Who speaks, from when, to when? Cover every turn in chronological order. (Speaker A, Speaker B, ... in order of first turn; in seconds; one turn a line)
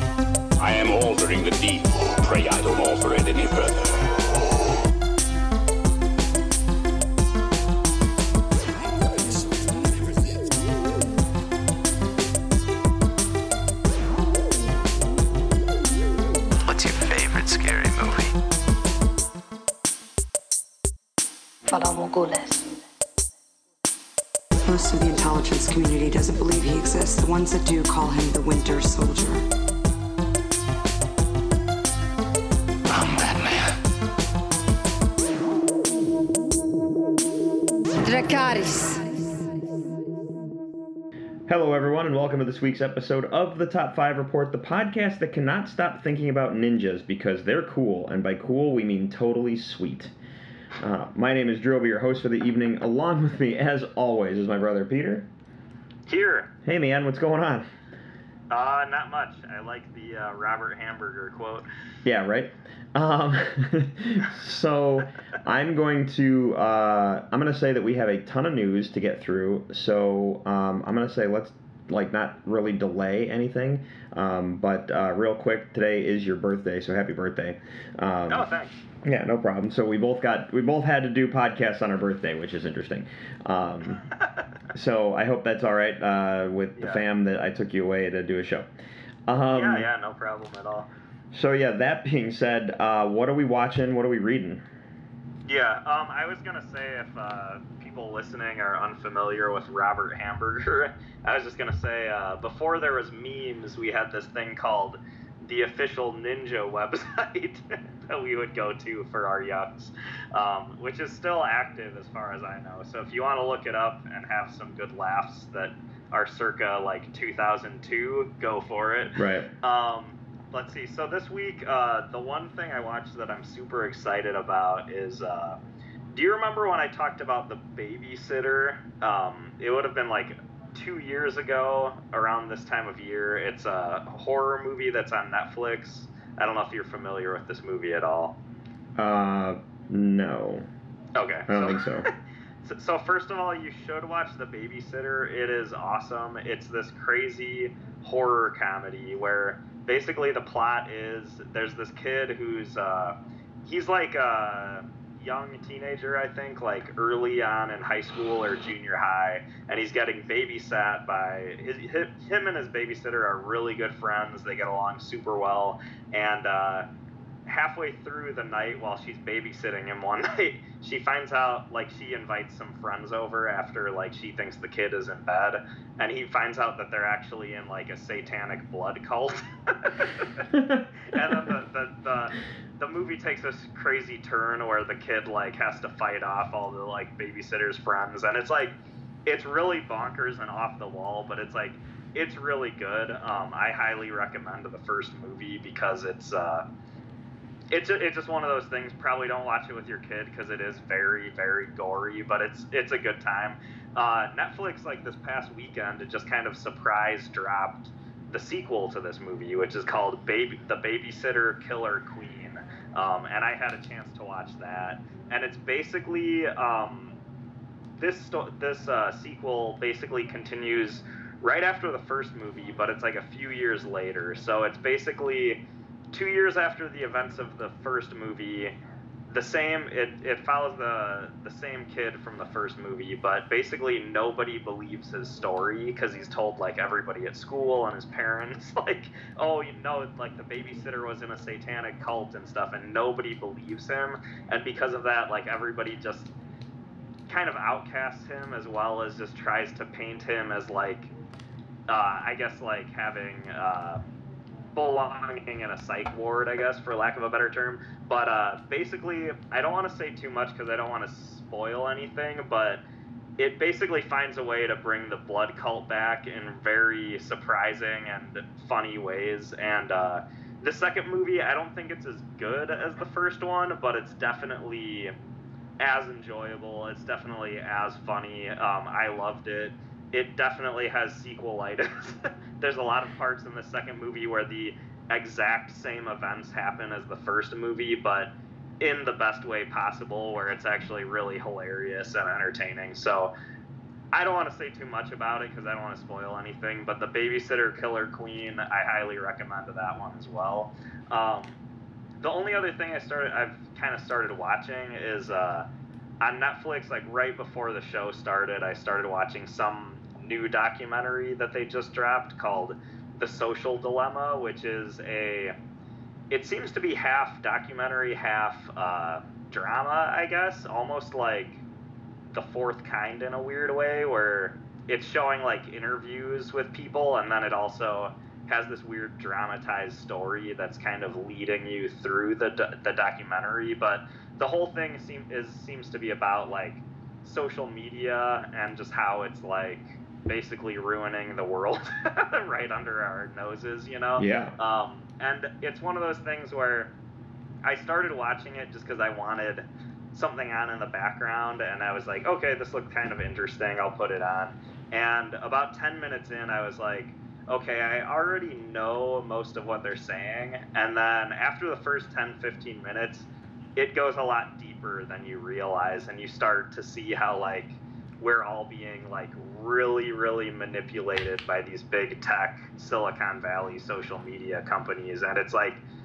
Speaker A: 0.6-4.0
Speaker B: 21.7-22.7
Speaker C: 24.6-29.4
Speaker A: 33.0-33.6
Speaker B: 38.0-39.0
Speaker D: 41.5-50.1
Speaker D: 50.8-55.3
Speaker E: 56.1-56.5
Speaker D: 56.6-57.7
Speaker E: 58.5-61.7
Speaker D: 62.0-78.5
Speaker E: 78.3-78.8
Speaker D: 79.0-84.0
Speaker D: 84.7-88.7
Speaker E: 86.8-87.0
Speaker D: 89.3-89.9
Speaker E: 89.5-90.9
Speaker D: 91.3-94.6
Speaker E: 95.5-125.6
Speaker D: 119.2-119.5
Speaker E: 126.1-138.3
Speaker D: 139.0-140.7
Speaker E: 141.1-142.1
Speaker D: 141.5-142.1
Speaker E: 142.6-166.9
Speaker E: 167.4-180.5
Speaker D: 180.5-181.3
Speaker E: 181.1-188.7
Speaker E: 189.2-196.6
Speaker E: 197.7-217.1
Speaker E: 218.0-225.6
Speaker E: 226.1-228.7
Speaker E: 229.3-246.3
Speaker E: 247.3-251.1
Speaker E: 251.9-254.0
Speaker E: 254.7-262.8
Speaker E: 263.4-275.1
Speaker E: 275.8-293.3
Speaker E: 294.1-301.6
Speaker E: 302.2-305.7
Speaker E: 306.2-315.5
Speaker E: 316.3-321.6
Speaker E: 322.3-346.9
Speaker D: 344.2-344.6
Speaker E: 347.6-375.8